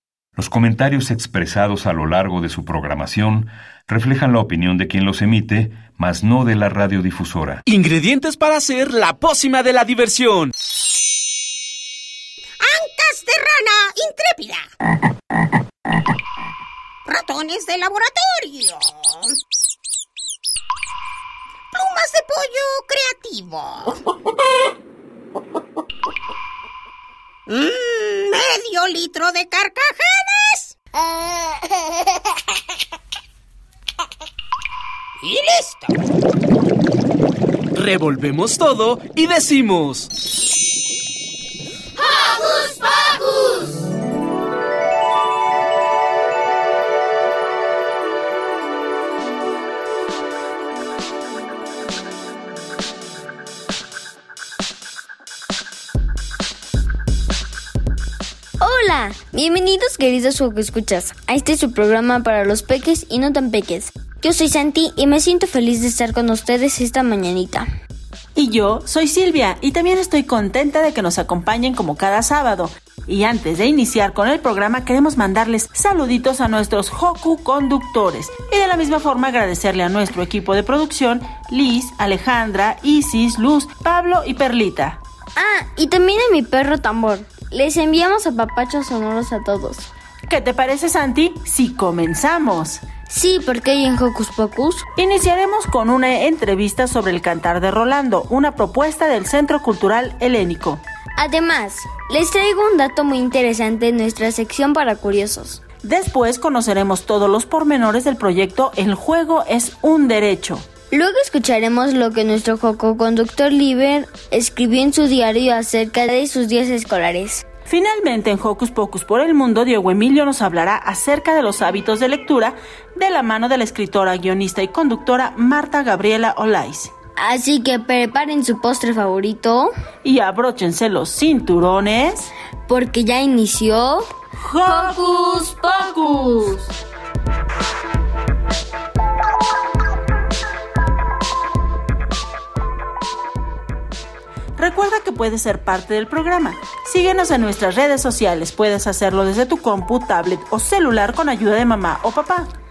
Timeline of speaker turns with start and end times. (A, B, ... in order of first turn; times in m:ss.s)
0:00.4-0:07.6 A
0:07.7-0:10.5 B
0:12.6-0:14.7 C
0:17.1-0:19.4 C
0:21.7-0:24.0 C
0:27.5-0:31.6 C
0:35.2-0:35.9 C
0:37.7-0:40.1 B
0:42.0-0:43.6 C
0:58.6-1:07.7 D
1:08.4-1:25.0 E
1:25.4-1:29.9 D
1:30.3-1:32.8 E
1:33.1-1:34.9 D
1:35.0-1:40.8 E
1:41.2-1:45.6 D
1:45.8-1:50.7 E
1:50.9-1:57.5 D
1:57.7-2:06.9 E
2:07.2-2:09.7 D
2:10.0-2:12.3 E
2:12.7-2:14.1 D
2:14.4-2:16.2 E
2:14.6-2:16.6 D
2:24.6-2:32.5 E